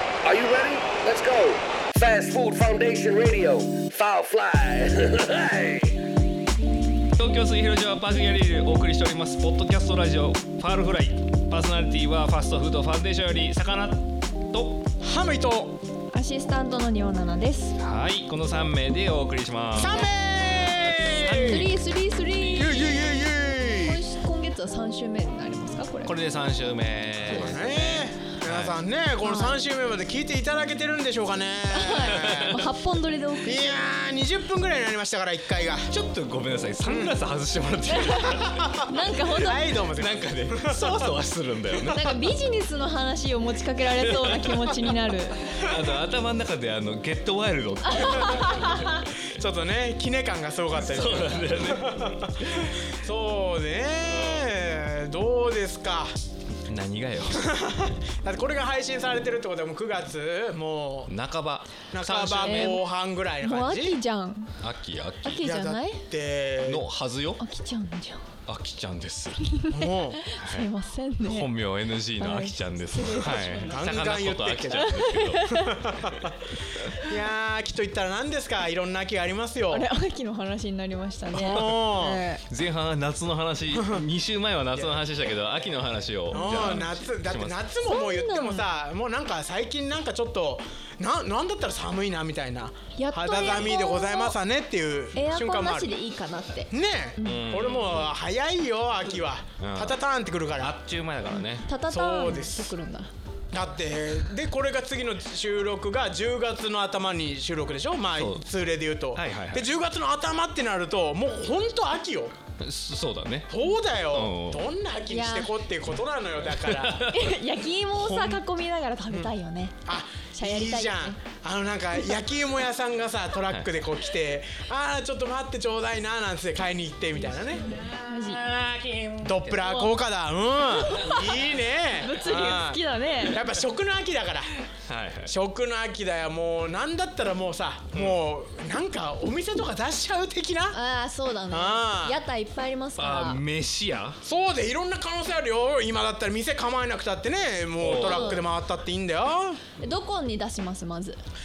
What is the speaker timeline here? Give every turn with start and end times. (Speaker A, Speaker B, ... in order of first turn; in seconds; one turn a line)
Speaker A: 0.2-6.0
Speaker B: 7.2-14.8
Speaker C: 15.0-15.8
Speaker D: 16.1-17.8
Speaker B: 17.8-20.0
Speaker C: 19.8-21.7
Speaker B: 21.1-22.6
Speaker D: 21.4-23.1
Speaker C: 22.5-24.0
Speaker D: 23.6-26.2
Speaker B: 26.0-28.8
Speaker D: 27.2-27.6
Speaker C: 27.3-32.6
Speaker D: 29.2-29.6
Speaker D: 31.7-33.8
Speaker B: 32.0-32.6
Speaker C: 33.4-35.9
Speaker B: 35.9-38.7
Speaker C: 36.8-37.3
Speaker D: 37.9-39.7
Speaker C: 38.3-41.1
Speaker B: 39.2-42.1
Speaker C: 41.9-42.2
Speaker D: 41.9-45.5
Speaker B: 44.1-44.5
Speaker B: 45.6-49.2
Speaker D: 47.8-49.1
Speaker C: 48.0-56.1
Speaker B: 50.8-52.7
Speaker B: 54.1-54.5
Speaker B: 56.7-57.5
Speaker C: 57.3-61.1
Speaker B: 61.1-62.8
Speaker C: 61.9-64.0
Speaker D: 62.4-62.9
Speaker D: 63.4-64.6
Speaker B: 64.6-65.5
Speaker D: 65.2-66.0
Speaker C: 65.4-66.8
Speaker B: 66.6-67.4
Speaker D: 67.4-68.2
Speaker B: 68.5-69.6
Speaker D: 69.4-71.5
Speaker C: 69.7-70.2
Speaker B: 70.4-70.7
Speaker B: 71.2-76.1
Speaker D: 72.2-73.8
Speaker C: 73.2-76.4
Speaker D: 74.7-75.8
Speaker C: 77.0-79.9
Speaker D: 79.7-82.4
Speaker C: 81.3-82.2
Speaker B: 81.4-82.0
Speaker B: 82.5-87.7
Speaker C: 83.7-84.0
Speaker C: 86.3-95.9
Speaker D: 86.3-86.9
Speaker D: 87.8-88.7
Speaker D: 93.0-94.4
Speaker D: 95.1-97.5
Speaker C: 96.7-100.7
Speaker B: 97.2-98.2
Speaker B: 99.6-100.0
Speaker B: 100.6-101.7
Speaker D: 101.6-103.1
Speaker C: 101.9-102.8
Speaker C: 103.5-112.3
Speaker B: 108.1-108.5
Speaker B: 109.1-109.7
Speaker B: 112.6-113.5
Speaker C: 113.5-117.1
Speaker B: 114.1-114.7
Speaker D: 115.1-115.5
Speaker B: 116.7-117.4
Speaker D: 117.0-119.8
Speaker B: 117.9-118.4
Speaker C: 119.9-127.8
Speaker D: 120.3-121.2
Speaker B: 123.5-123.7
Speaker B: 128.0-129.9
Speaker D: 128.1-128.4
Speaker C: 129.2-134.5
Speaker D: 130.8-131.5
Speaker D: 132.0-133.4
Speaker B: 134.9-135.3
Speaker C: 135.2-140.8
Speaker B: 137.9-138.2
Speaker D: 140.7-143.4
Speaker C: 141.5-142.2
Speaker B: 143.0-144.2
Speaker C: 144.2-149.6
Speaker B: 147.8-148.4
Speaker D: 148.1-148.4
Speaker D: 149.8-151.2